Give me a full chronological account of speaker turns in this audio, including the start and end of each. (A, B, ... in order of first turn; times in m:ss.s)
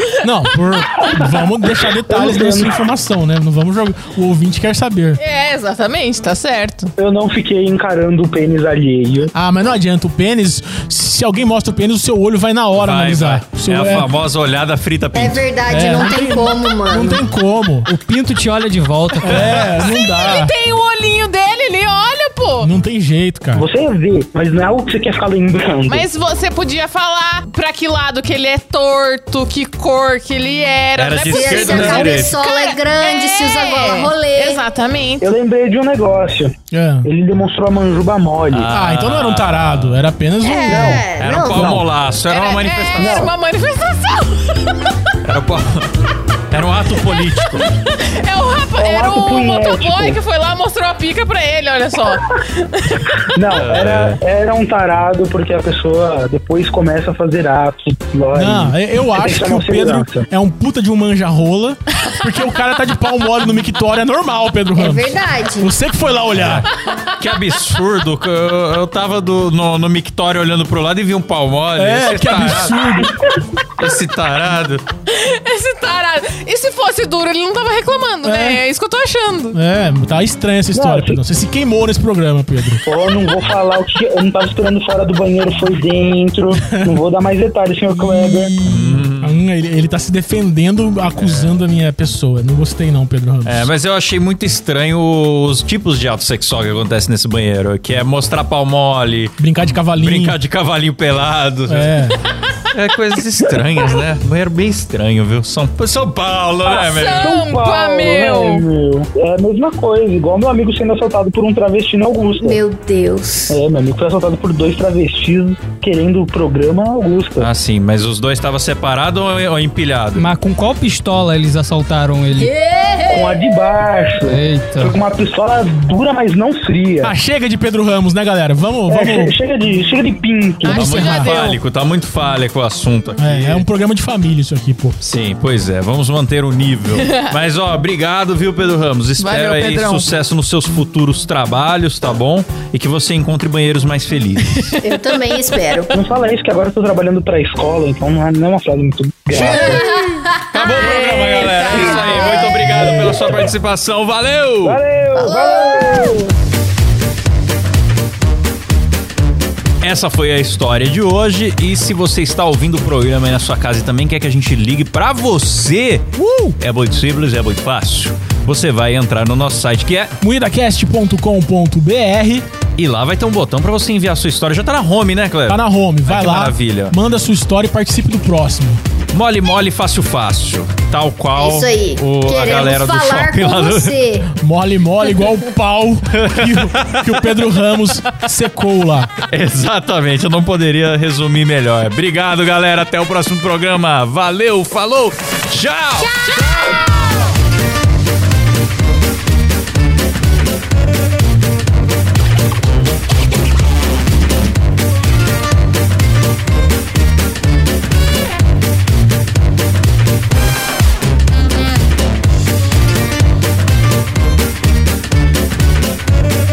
0:00.2-0:05.2 A
0:02.1-0:02.8 B
0:05.2-0:06.9 C
0:07.0-0:09.3 B
0:09.3-0:14.1 A
0:12.8-0:15.5 D
0:15.1-0:17.2 E
0:15.7-0:17.9 A
0:17.8-0:19.7 F
0:19.2-0:20.5 A
0:19.3-0:19.6 D
0:19.8-0:22.7 C
0:22.6-0:23.7 A
0:23.5-0:26.1 B
0:25.9-0:35.3 C
0:31.0-0:32.4 D
0:31.3-0:34.7 E
0:35.2-0:38.7 B
0:36.7-0:37.1 A
0:38.5-0:40.0 D
0:38.7-0:41.8 A
0:40.4-0:41.7 E
0:40.7-0:41.8 B
0:41.1-0:43.3 D
0:42.3-0:44.8 C
0:43.0-0:43.3 B
0:45.2-0:45.9 D
0:46.5-0:47.7 D
0:47.9-0:53.2 C
0:48.8-0:50.2 B
0:53.3-1:00.3 B
0:53.6-0:54.2 D
0:58.3-1:06.7 A
1:04.8-1:05.7 E
1:07.2-1:12.8 D
1:11.8-1:13.2 A
1:13.8-1:14.8 D
1:15.1-1:19.6 C
1:18.2-1:18.6 A
1:19.5-1:22.8 A
1:20.7-1:21.2 B
1:22.9-1:28.5 B
1:27.9-1:33.7 A
1:28.6-1:29.4 D
1:31.2-1:31.6 D
1:33.4-1:42.1 D
1:39.4-1:40.4 A
1:41.7-1:42.2 A
1:42.7-1:47.3 D
1:46.7-1:52.6 B
1:46.7-1:48.6 C
1:52.4-1:53.6 E
1:53.5-1:57.5 B
1:57.4-2:00.3 D
2:00.1-2:02.5 F
2:02.3-2:03.6 E
2:03.1-2:07.2 B
2:04.2-2:05.0 F
2:07.0-2:09.4 A
2:08.9-2:10.9 B
2:10.6-2:11.6 C
2:10.7-2:11.3 A
2:10.8-2:13.6 D
2:13.2-2:15.0 A
2:15.0-2:24.5 D
2:16.9-2:17.3 C
2:19.2-2:20.1 C
2:24.8-2:25.9 E
2:25.9-2:29.8 B
2:29.3-2:29.8 D
2:29.5-2:30.8 E
2:30.5-2:34.8 D
2:30.8-2:32.5 C
2:31.8-2:32.7 E
2:32.7-2:33.3 B
2:34.6-2:36.3 B
2:35.2-2:36.3 E
2:39.8-2:46.1 D
2:46.2-2:46.6 A
2:46.6-2:50.1 D
2:50.2-2:52.5 A
2:52.8-2:57.0 D
2:55.5-2:58.8 A
2:59.1-3:04.0 D
3:01.3-3:04.3 E
3:04.4-3:09.1 A
3:06.1-3:07.2 D
3:09.3-3:16.5 D
3:16.4-3:17.0 C